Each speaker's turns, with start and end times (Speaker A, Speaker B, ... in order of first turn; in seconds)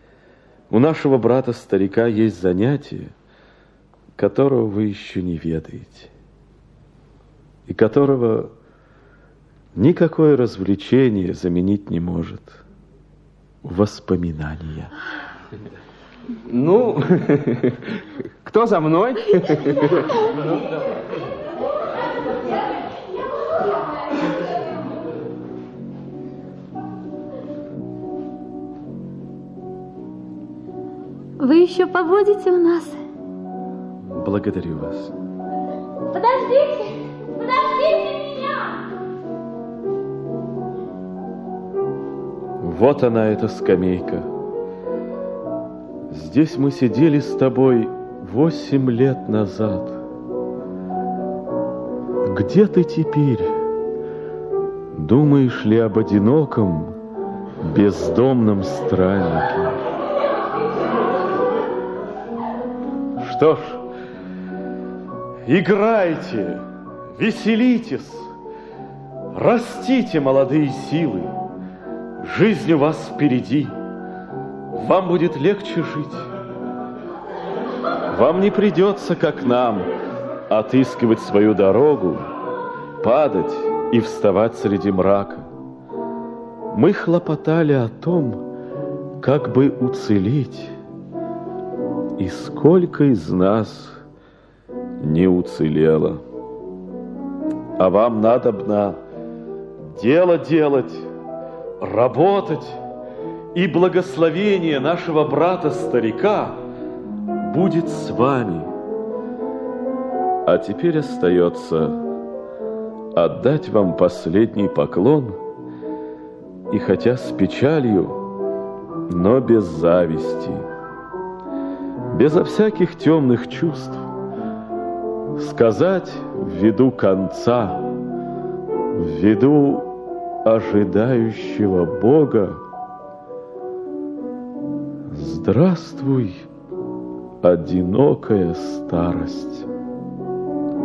Speaker A: 0.7-3.1, 4.2-6.1, 7.7-8.5, 9.7-12.6, 13.6-14.9, 34.1-35.1, 42.6-44.3, 46.1-50.0, 52.2-53.6, 54.9-57.0, 57.6-59.8, 63.2-63.8, 65.5-68.3, 69.3-71.3, 72.2-73.7, 74.7-76.2, 78.1-79.9, 80.5-82.2, 83.0-85.5, 86.7-88.5, 89.2-90.8, 92.2-94.0, 95.0-96.2, 97.8-99.0, 99.8-101.1, 101.8-102.8, 103.5-106.6, 107.4-108.7, 110.4-112.0, 113.1-115.4, 116.7-118.2, 119.1-120.6, 122.1-124.0, 125.3-127.9, 128.9-132.6, 135.1-136.5, 137.4-139.7
Speaker B: 16.5-17.5, 18.4-19.9
Speaker C: 31.4-33.0, 36.1-38.8